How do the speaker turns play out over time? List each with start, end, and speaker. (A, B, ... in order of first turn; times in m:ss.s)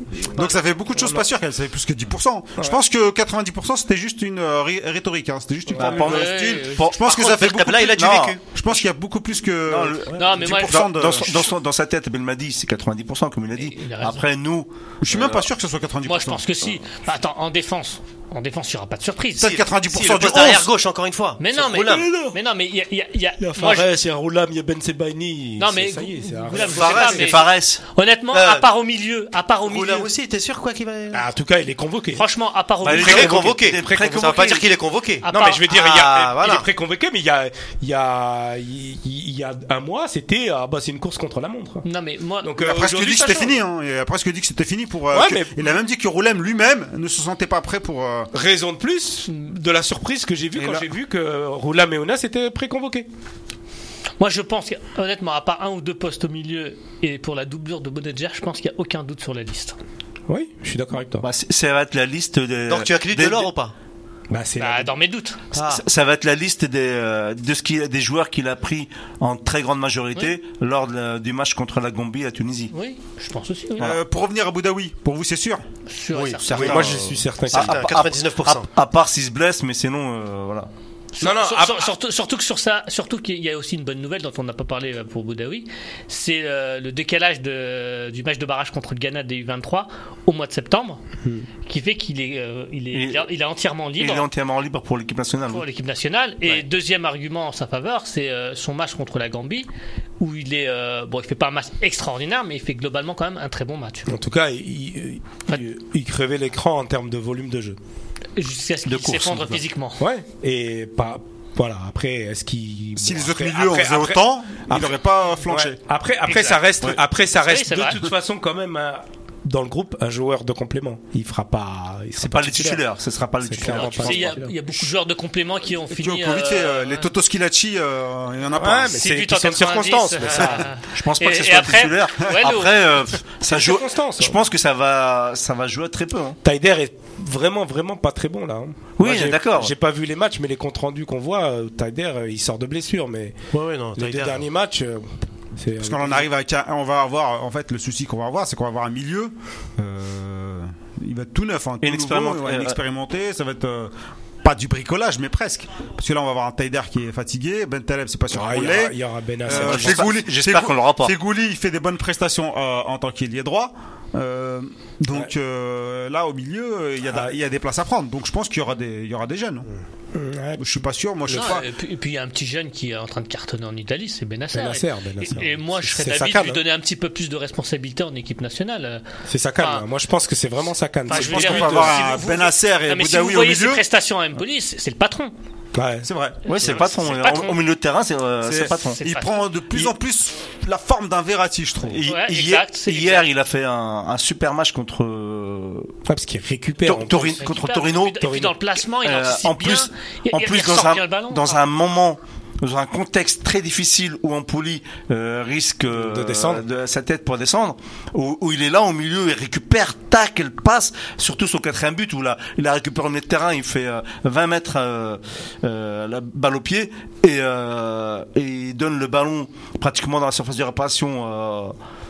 0:00.3-0:11.5 A
0:01.0-0:01.2 B
0:05.7-0:06.0 B
0:05.8-0:08.4 C
0:05.8-0:07.0 D
0:07.0-0:08.4 E
0:09.7-0:15.5 C
0:10.1-0:11.1 D
0:13.6-0:14.2 D
0:15.0-0:16.4 A
0:16.0-0:19.6 D
0:19.4-0:20.7 A
0:19.4-0:22.1 E
0:21.4-0:23.9 D
0:22.0-0:22.4 B
0:23.4-0:27.0 B
0:25.6-0:30.1 D
0:26.5-0:27.8 C
0:26.7-0:27.3 E
0:28.3-0:28.6 E
0:29.6-0:31.2 E
0:31.1-0:32.2 B
0:32.1-0:33.5 D
0:32.8-0:34.6 C
0:32.9-0:36.7 E
0:32.9-0:34.5 B
0:35.2-0:35.7 D
0:35.3-0:41.8 B
0:41.8-0:42.5 D
0:42.4-0:43.6 B
0:42.6-0:48.3 A
0:45.1-0:45.8 B
0:48.3-0:53.1 B
0:50.6-0:50.9 A
0:54.2-0:59.8 D
1:00.3-1:01.3 B
1:01.2-1:03.5 C
1:02.7-1:03.7 E
1:04.3-1:04.9 B
1:04.6-1:05.4 D
1:05.5-1:05.8 E
1:05.6-1:12.7 C
1:12.7-1:14.0 D
1:13.8-1:15.6 A
1:15.9-1:17.0 D
1:16.1-1:16.9 E
1:16.4-1:20.7 C
1:16.5-1:17.8 B
1:17.5-1:18.7 E
1:21.2-1:31.0 D
1:21.2-1:21.9 B
1:31.6-1:34.3 D
1:32.9-1:33.3 C
1:34.0-1:35.6 C
1:35.5-1:39.7 D
1:40.2-1:44.1 D
1:44.1-1:47.8 B
1:48.4-1:50.0 D
1:48.9-1:49.6 C
1:50.0-2:02.8 B
1:53.0-1:55.8 A
1:56.3-1:56.7 D
1:57.4-1:58.0 D
2:02.2-2:04.4 C
2:03.4-2:04.6 B
2:03.6-2:07.1 D
2:05.9-2:08.9 A
2:08.5-2:10.7 B
2:08.8-2:13.1 D
2:10.8-2:16.4 C
2:13.5-2:14.4 B
2:16.4-2:23.4 B
2:19.0-2:19.7 C
2:23.5-2:24.4 E
2:24.0-2:26.3 B
2:25.8-2:49.7 A
2:31.8-2:32.8 C
2:38.3-2:40.1 B
2:39.5-2:41.1 C
2:50.1-2:50.8 B
2:50.6-2:51.6 A
2:51.3-2:59.0 D
2:54.5-2:56.6 B
2:59.3-3:02.0 B
2:59.6-2:59.8 D
3:01.1-3:05.3 D
3:01.1-3:03.8 A
3:05.8-3:06.1 B
3:06.0-3:06.4 A
3:06.5-3:07.6 D
3:06.5-3:09.0 C
3:08.4-3:12.0 A
3:09.0-3:09.6 D
3:11.9-3:15.9 C
3:12.0-3:13.3 D
3:16.1-3:17.6 B
3:16.8-3:18.4 C
3:17.4-3:21.6 D
3:18.2-3:18.5 B
3:19.0-3:41.8 C
3:25.9-3:26.6 B